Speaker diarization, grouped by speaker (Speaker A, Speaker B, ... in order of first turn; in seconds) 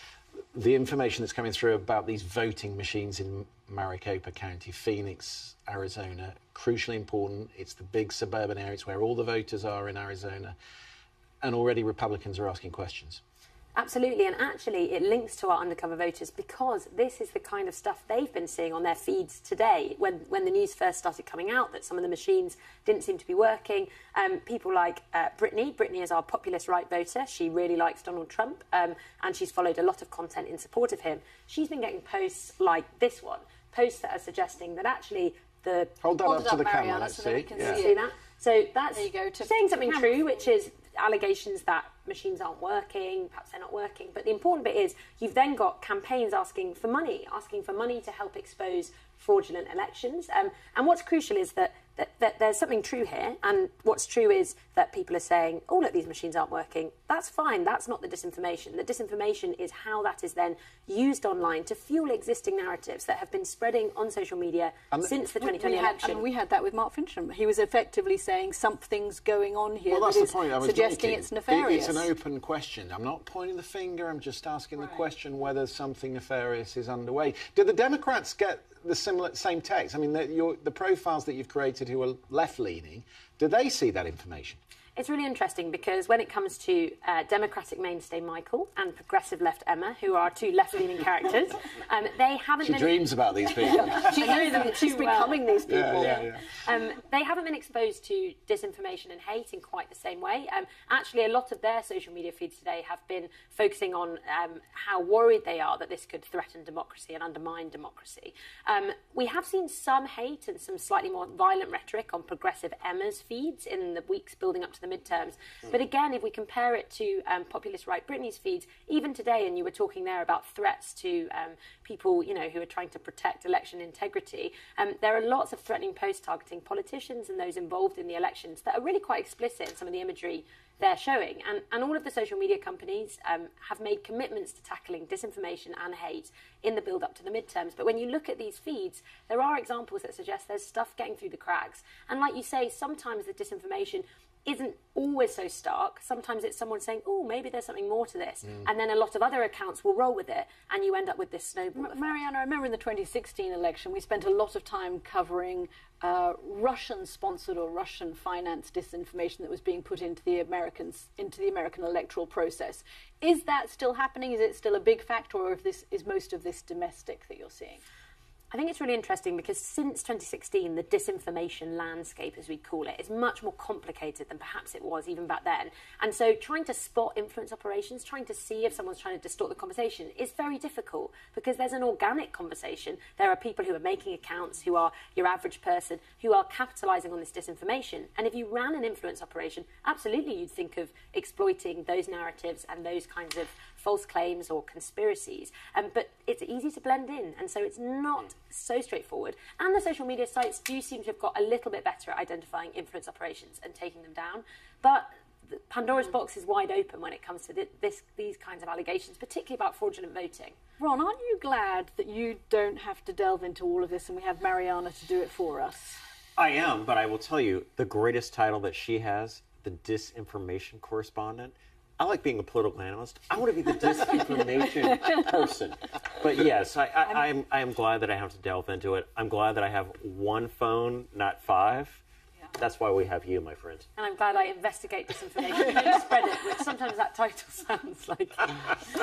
Speaker A: 0.5-10.5, 11.4-13.2, 36.0-37.8, 69.9-84.6, 92.6-94.4, 95.7-96.5
Speaker B: 13.8-36.0, 37.6-66.2, 85.0-93.0, 93.7-152.1, 168.5-210.6, 233.9-238.8
Speaker C: 36.2-38.0, 38.9-40.2, 65.4-72.1, 93.9-96.2, 151.7-167.8, 210.8-216.0
Speaker D: 216.4-232.0, 232.6-233.9